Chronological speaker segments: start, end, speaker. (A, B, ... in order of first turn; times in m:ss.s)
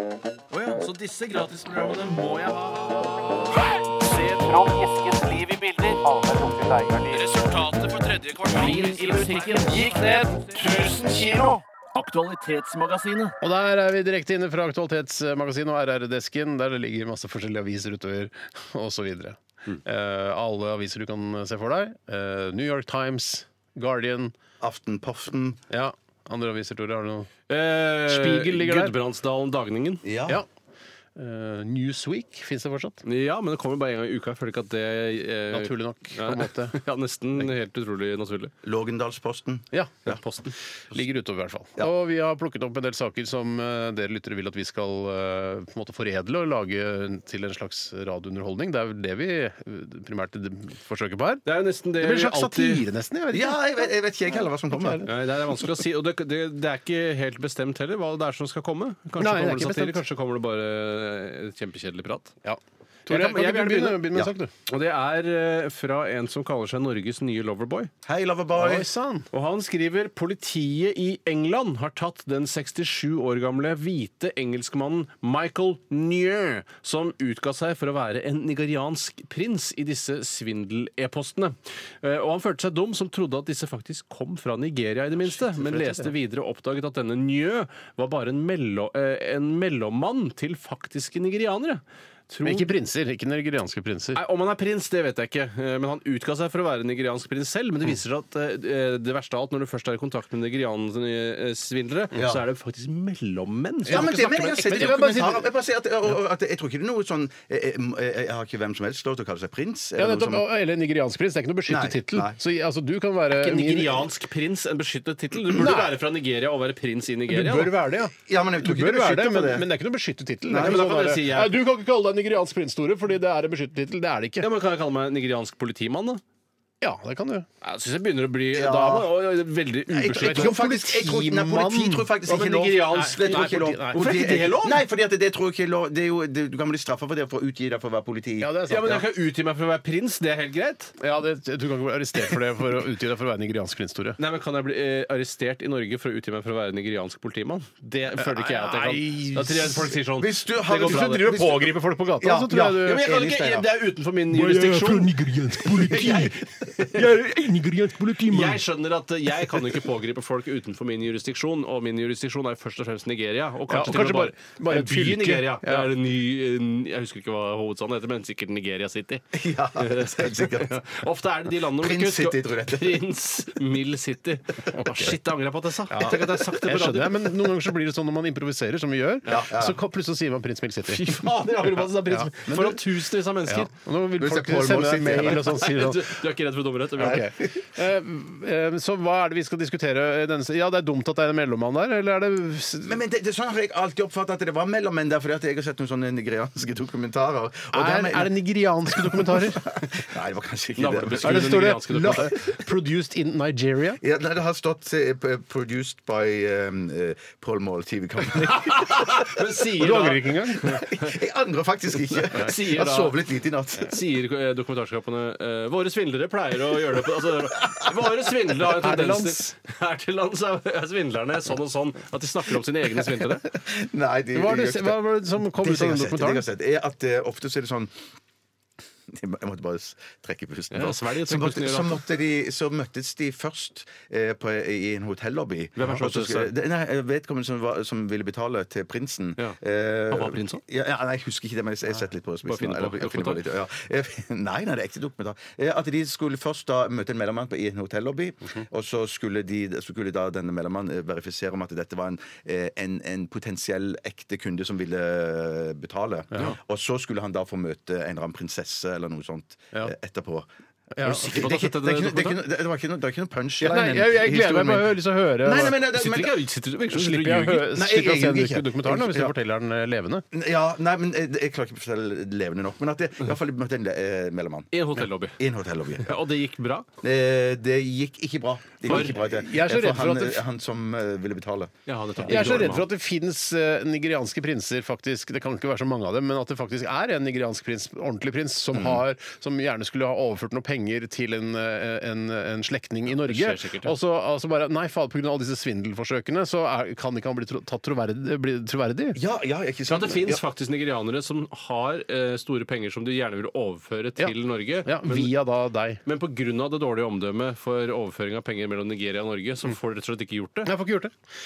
0:00.5-0:06.2 A
0:06.1-0:07.2 B
0:07.1-0:13.4 A
0:08.5-0:10.2 B
0:13.4-0:24.3 B
0:24.6-0:25.6 C
0:25.7-0:27.3 B
0:27.5-0:30.0 A
0:28.1-0:29.0 B
0:30.0-0:30.4 C
0:31.2-0:33.0 B
0:33.0-0:38.5 A
0:35.5-0:36.8 B
0:38.6-0:40.2 C
0:39.7-0:40.1 B
0:40.1-0:40.5 A
0:40.9-0:51.5 B
0:51.4-0:52.8 A
0:52.0-0:53.9 B
0:53.3-0:55.1 C
0:54.7-0:55.1 B
0:55.1-1:02.3 A
0:59.2-1:00.0 B
1:02.4-1:04.5 B
1:03.1-1:07.9 A
1:08.0-1:08.9 C
1:08.6-1:09.3 B
1:09.3-1:32.7 A
1:25.2-1:26.1 B
1:32.4-1:34.2 B
1:34.2-1:44.8 A
1:42.1-1:42.4 C
1:43.9-1:45.5 B
1:43.9-1:50.5 C
1:50.0-1:54.1 B
1:51.7-1:52.4 C
1:53.3-1:57.7 A
1:55.5-1:56.0 B
1:57.3-2:04.5 B
1:58.3-1:59.7 C
2:00.5-2:00.9 C
2:00.6-2:01.6 A
2:04.4-2:06.2 A
2:06.8-2:07.5 B
2:07.6-2:10.6 A
2:08.5-2:09.1 C
2:09.9-2:19.0 C
2:10.1-2:12.2 B
2:12.3-2:14.8 A
2:12.9-2:14.4 B
2:18.4-2:19.0 B
2:18.7-2:20.9 A
2:21.0-2:24.2 B
2:24.2-2:31.3 A
2:28.2-2:30.0 B
2:30.2-2:33.7 C
2:30.7-2:33.1 B
2:32.8-2:37.1 A
2:34.3-2:38.6 B
2:38.2-2:57.3 A
2:43.7-2:45.9 B
2:49.3-2:50.8 C
2:51.7-2:53.0 C
2:54.7-2:55.2 B
2:55.9-3:01.2 B
2:59.3-2:59.8 C
3:00.9-3:03.7 A
3:02.5-3:02.8 C
3:03.5-3:06.2 B
3:04.2-3:05.6 C
3:05.3-3:07.2 A
3:07.0-3:13.0 B
3:07.0-3:07.5 C
3:12.8-3:18.3 C
3:17.7-3:19.7 B
3:18.9-3:22.3 C
3:20.8-3:22.3 A
3:21.2-3:24.0 B
3:24.0-3:29.3 C
3:28.4-3:31.1 A
3:29.8-3:30.7 B
3:30.5-3:34.0 C
3:32.1-3:33.1 A
3:33.8-3:43.5 A
3:38.6-3:39.5 B
3:43.5-3:47.9 C
3:44.4-3:46.4 B
3:49.1-4:20.5 C
3:50.7-3:52.0 A
3:55.8-3:56.5 A
4:00.1-4:00.6 A
4:02.5-4:03.4 A
4:21.0-4:21.4 B
4:21.0-4:22.4 A
4:21.0-4:26.4 C
4:23.6-4:25.8 B
4:25.9-4:27.7 A
4:26.9-4:30.3 B
4:27.7-4:29.3 C
4:30.3-4:34.7 C
4:34.7-4:35.4 A
4:35.4-4:36.2 C
4:36.0-4:36.9 A
4:37.0-4:42.7 C
4:38.9-4:40.4 B
4:41.9-4:42.9 A
4:42.3-4:59.2 B
4:48.7-4:49.0 C
4:53.1-4:54.0 A
4:59.1-5:00.4 C
4:59.9-5:05.3 A
5:04.2-5:06.0 B
5:06.1-5:10.7 A
5:10.6-5:11.1 B